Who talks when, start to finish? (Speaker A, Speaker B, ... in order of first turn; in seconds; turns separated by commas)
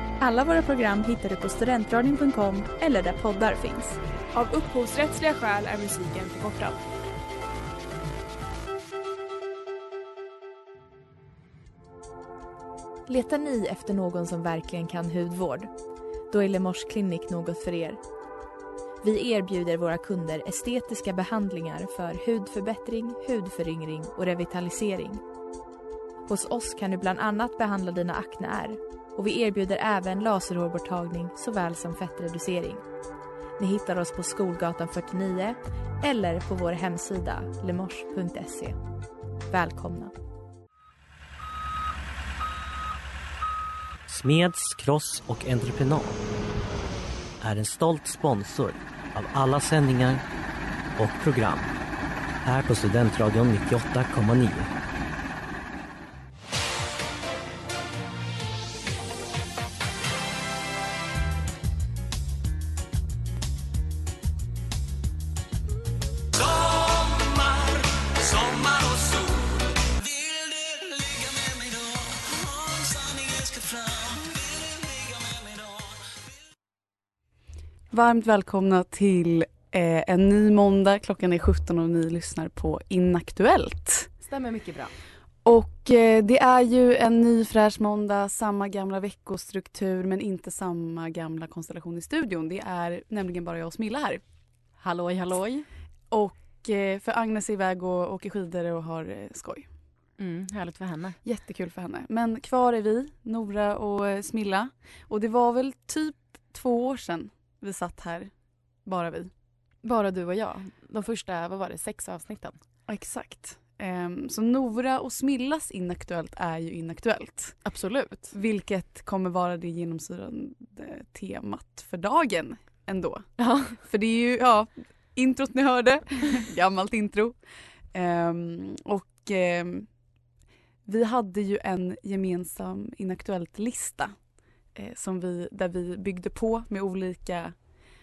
Speaker A: 0.2-4.0, Speaker B: 4.3-6.8, Speaker A: 13.1-15.7, Speaker A: 16.3-18.0, Speaker A: 19.0-25.2, Speaker A: 26.3-32.8, Speaker A: 33.6-38.8, Speaker A: 39.5-40.1, Speaker C: 44.1-46.2, Speaker C: 47.4-50.2, Speaker C: 51.0-51.7, Speaker C: 52.4-54.7, Speaker D: 77.9-84.1, Speaker E: 84.2-84.9, Speaker D: 85.5-94.2, Speaker E: 94.8-95.7, Speaker D: 96.1-99.7, Speaker E: 100.2-101.2, Speaker D: 101.2-108.3, Speaker D: 108.8-109.3, Speaker E: 109.8-112.6, Speaker D: 112.9-117.6, Speaker E: 117.6-118.3, Speaker D: 118.3-127.4, Speaker E: 123.4-123.8, Speaker D: 127.9-129.9, Speaker D: 130.8-134.1, Speaker D: 134.7-137.5